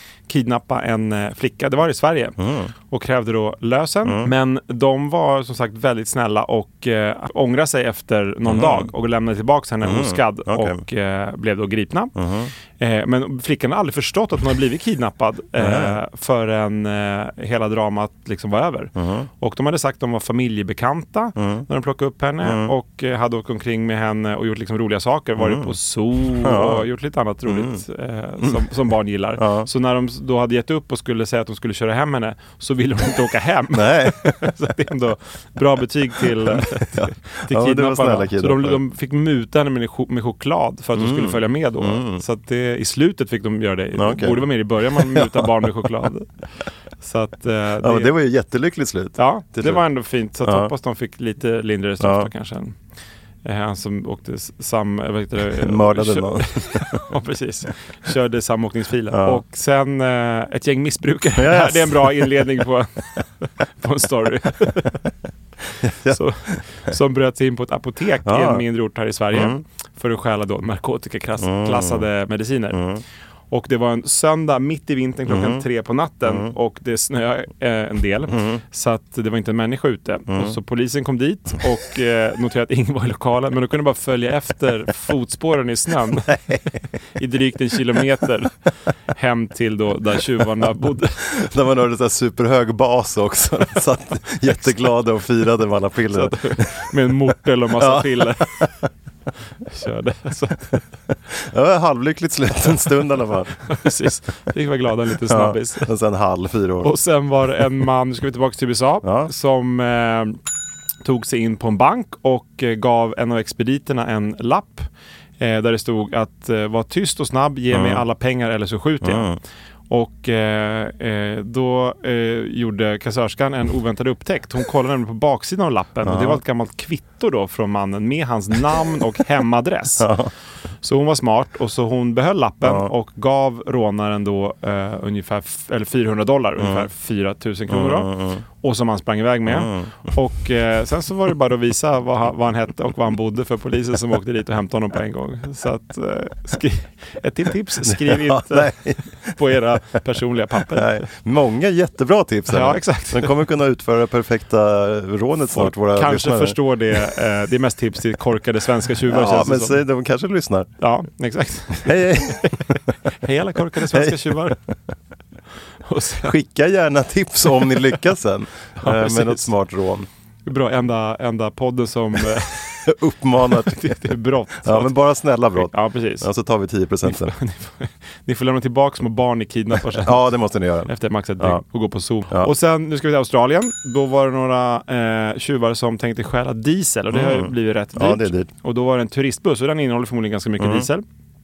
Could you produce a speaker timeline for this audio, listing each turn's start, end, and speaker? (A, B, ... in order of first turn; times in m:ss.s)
0:00.3-0:02.4 A
0:02.4-0:02.7 B
0:02.9-0:12.2 A
0:04.0-0:04.3 B
0:08.5-0:08.9 B
0:09.8-0:10.8 B
0:12.2-0:12.5 B
0:12.8-0:46.3 A
0:15.6-0:16.0 B
0:19.0-0:19.3 B
0:21.4-0:21.7 B
0:22.4-0:22.7 B
0:25.4-0:26.8 B
0:27.5-0:27.8 B
0:29.4-0:29.7 B
0:33.7-0:34.4 B
0:36.4-0:38.8 B
0:41.0-0:42.2 B
0:44.0-0:45.5 B
0:47.0-0:48.1 A
0:47.8-0:49.8 B
0:49.2-0:52.8 A
0:50.4-0:50.7 B
0:52.0-0:52.3 B
0:53.4-1:05.0 A
0:55.6-0:57.0 B
0:59.1-0:59.4 B
1:01.4-1:02.4 B
1:05.8-1:06.9 B
1:06.1-1:12.8 A
1:08.2-1:08.6 B
1:09.3-1:09.6 B
1:11.4-1:12.1 B
1:12.7-1:13.0 B
1:13.5-1:26.3 A
1:15.3-1:15.6 B
1:16.2-1:16.5 B
1:18.3-1:18.6 B
1:20.3-1:20.6 B
1:26.3-1:26.8 B
1:27.2-1:28.5 A
1:29.1-1:31.2 A
1:31.3-1:36.8 B
1:36.1-1:38.7 A
1:37.8-1:38.7 B
1:39.7-1:40.8 A
1:41.3-1:43.5 B
1:43.7-1:45.9 A
1:45.3-1:46.9 B
1:46.8-1:50.4 A
1:49.0-1:49.3 B
1:51.0-1:54.9 A
1:55.4-1:59.3 A
1:57.7-1:58.0 B
1:59.0-1:59.4 B
1:59.9-2:10.1 A
2:06.0-2:06.4 B
2:10.0-2:10.3 B
2:10.8-2:28.8 A
2:12.6-2:12.9 B
2:16.6-2:16.9 B
2:17.7-2:18.4 B
2:19.5-2:20.1 B
2:27.9-2:29.4 B
2:29.3-2:31.0 A
2:30.7-2:37.1 B
2:32.5-2:33.4 A
2:35.5-2:39.8 A
2:39.1-2:40.7 B
2:40.8-2:44.6 A
2:41.8-2:42.8 B
2:43.8-2:44.7 B
2:45.8-2:46.3 A
2:46.2-2:50.1 B
2:48.8-2:49.5 A
2:50.5-2:52.7 A
2:52.3-2:54.0 B
2:53.4-2:54.9 A
2:54.6-2:57.3 B
2:55.6-2:56.3 A
2:57.0-3:00.3 A
2:59.9-3:01.6 B
3:00.9-3:11.0 A
3:07.1-3:08.5 B
3:10.6-3:10.9 B